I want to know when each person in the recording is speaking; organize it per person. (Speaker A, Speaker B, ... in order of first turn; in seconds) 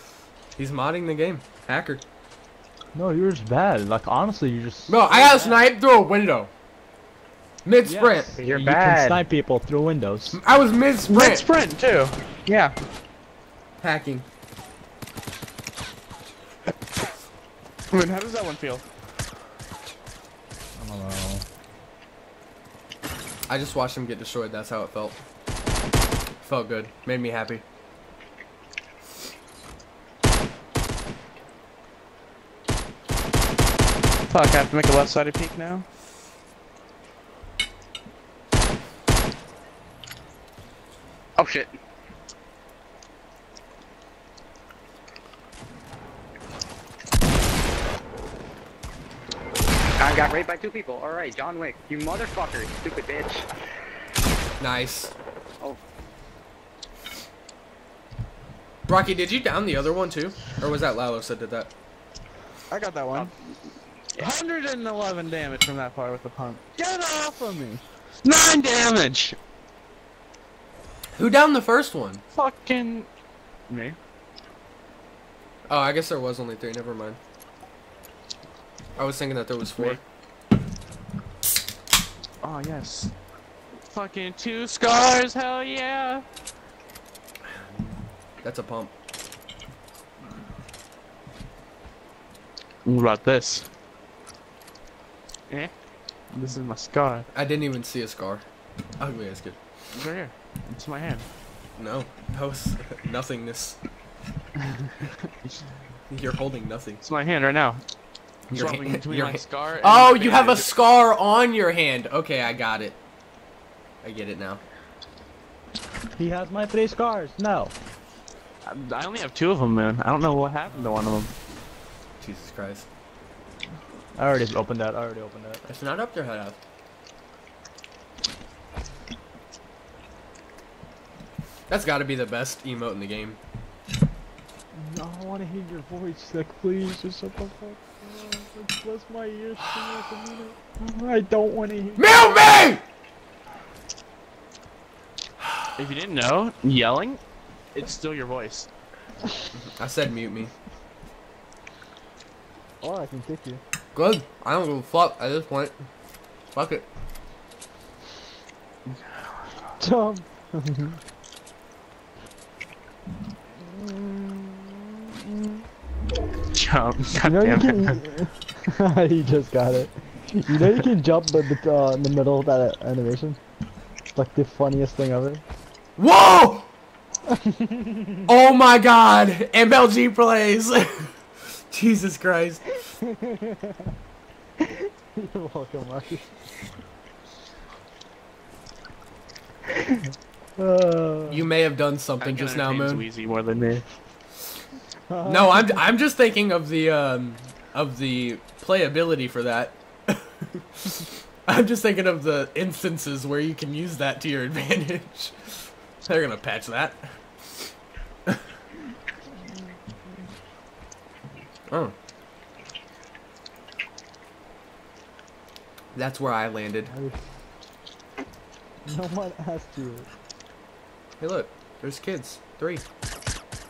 Speaker A: 0.6-2.0, 4.9-6.5, 7.6-8.3, 10.3-11.4, 13.8-14.2, 23.5-25.2, 26.4-27.6, 54.6-55.1, 58.9-61.7, 71.2-72.2, 75.7-77.2, 79.0-80.0, 88.4-88.9, 97.3-98.4, 99.0-99.6, 101.8-103.8, 106.1-107.0, 108.5-113.0, 114.0-114.6, 122.2-122.9, 125.7-126.6, 131.7-133.4, 142.0-142.8, 145.4-145.7, 149.6-150.5, 153.9-155.8, 156.5-156.8, 176.0-176.7, 178.3-182.6, 191.3-193.1, 195.2-207.7, 211.7-211.9, 215.9-216.9, 221.2-222.8
Speaker B: 2.9-5.6, 7.8-10.4, 20.8-21.4, 116.2-117.7, 120.7-121.1, 124.2-125.6, 134.7-142.6, 152.8-153.6, 159.8-161.0, 167.2-173.4, 174.1-175.4, 177.3-178.3, 183.0-183.9, 184.6-186.3, 190.6-191.5, 195.1-195.8, 216.9-217.2, 218.8-220.1
Speaker C: 8.4-9.2, 41.4-41.7, 50.0-53.5
Speaker D: 11.1-12.7, 17.9-18.8, 34.3-35.9, 62.7-63.3, 64.2-69.4, 72.3-73.1, 73.7-74.0, 82.4-83.1, 83.9-86.2, 92.8-93.7, 96.3-97.3, 99.9-101.3, 107.0-107.8, 108.5-110.7, 118.6-121.3, 145.8-147.2, 147.7-148.7, 163.9-164.4, 166.5-168.0, 192.2-193.8